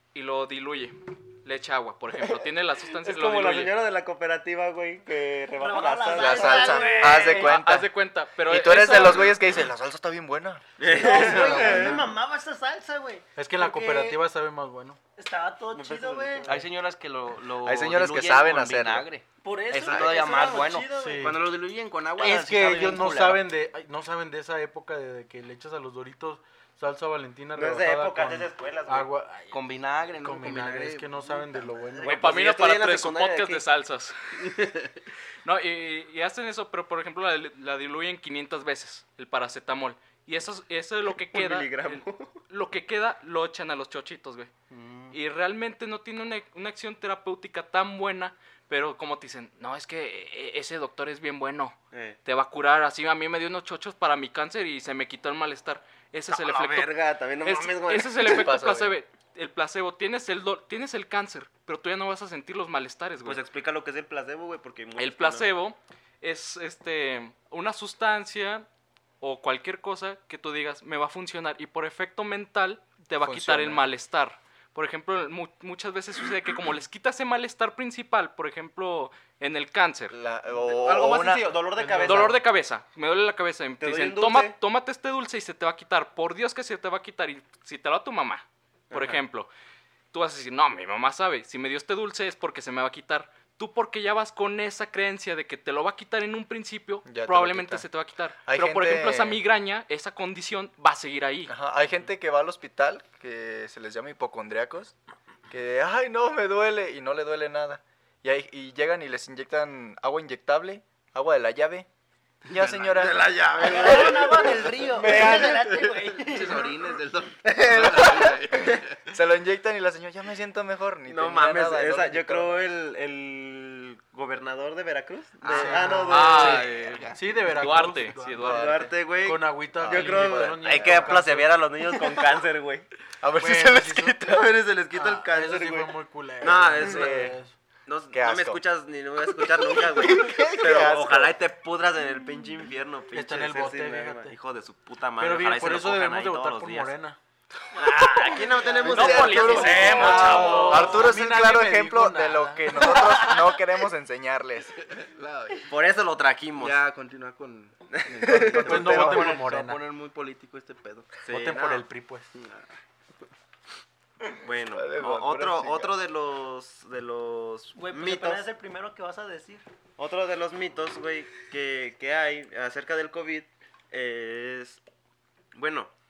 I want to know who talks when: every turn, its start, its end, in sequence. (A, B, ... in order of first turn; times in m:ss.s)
0:00.1-0:03.7 A
0:03.0-0:07.3 B
0:05.6-0:07.6 C
0:06.1-0:07.9 D
0:07.2-0:09.4 A
0:08.5-0:10.8 D
0:10.8-0:12.0 B
0:10.9-0:12.0 E
0:10.9-0:14.2 C
0:13.4-0:15.0 F
0:15.2-0:16.6 C
0:15.7-0:16.6 B
0:16.4-0:23.5 E
0:17.6-0:19.1 D
0:19.4-0:21.4 C
0:20.9-0:21.4 F
0:22.2-0:32.4 F
0:27.6-0:29.1 B
0:29.5-0:32.1 E
0:32.0-0:33.6 B
0:32.1-0:34.8 A
0:34.5-0:34.9 E
0:35.4-0:44.5 A
0:41.1-0:42.4 B
0:44.7-0:45.2 E
0:45.1-1:03.4 A
0:51.9-0:52.2 B
0:56.3-0:58.5 B
0:58.2-0:59.0 D
1:03.2-1:05.5 B
1:05.0-1:08.7 A
1:09.2-1:20.2 A
1:13.2-1:13.9 D
1:20.1-1:22.3 D
1:20.6-1:22.4 B
1:21.8-1:22.3 F
1:22.0-1:29.5 A
1:23.8-1:24.6 B
1:28.9-1:29.2 B
1:30.1-1:41.6 A
1:37.1-1:37.8 D
1:38.4-1:39.4 D
1:41.5-1:44.9 D
1:45.5-1:51.9 D
1:52.5-1:59.0 E
1:52.5-1:53.3 D
1:53.6-1:56.7 C
1:57.4-2:02.6 D
2:01.1-2:06.7 B
2:05.5-2:07.4 E
2:05.5-2:06.4 F
2:06.1-2:08.8 A
2:07.2-2:11.6 F
2:08.4-2:08.8 D
2:08.5-2:12.9 B
2:09.8-2:11.2 D
2:13.2-2:14.5 D
2:13.4-2:14.2 F
2:14.2-2:17.3 B
2:14.9-2:17.6 F
2:16.8-2:17.4 D
2:17.9-2:26.9 B
2:18.1-2:18.6 D
2:19.8-2:21.3 D
2:23.1-2:24.4 F
2:25.2-2:27.2 F
2:27.8-2:30.9 B
2:27.8-2:31.1 A
2:28.8-2:34.8 D
2:29.6-2:33.3 F
2:34.8-2:35.7 E
2:35.7-2:36.8 B
2:36.6-2:41.2 E
2:37.9-2:38.3 B
2:38.3-2:39.3 D
2:38.5-2:39.8 F
2:41.3-2:41.9 B
2:41.3-2:42.3 F
2:42.4-2:42.7 E
2:44.4-2:48.4 B
2:44.7-2:45.9 D
2:47.8-2:49.6 C
2:50.0-2:54.8 B
2:55.5-2:55.9 B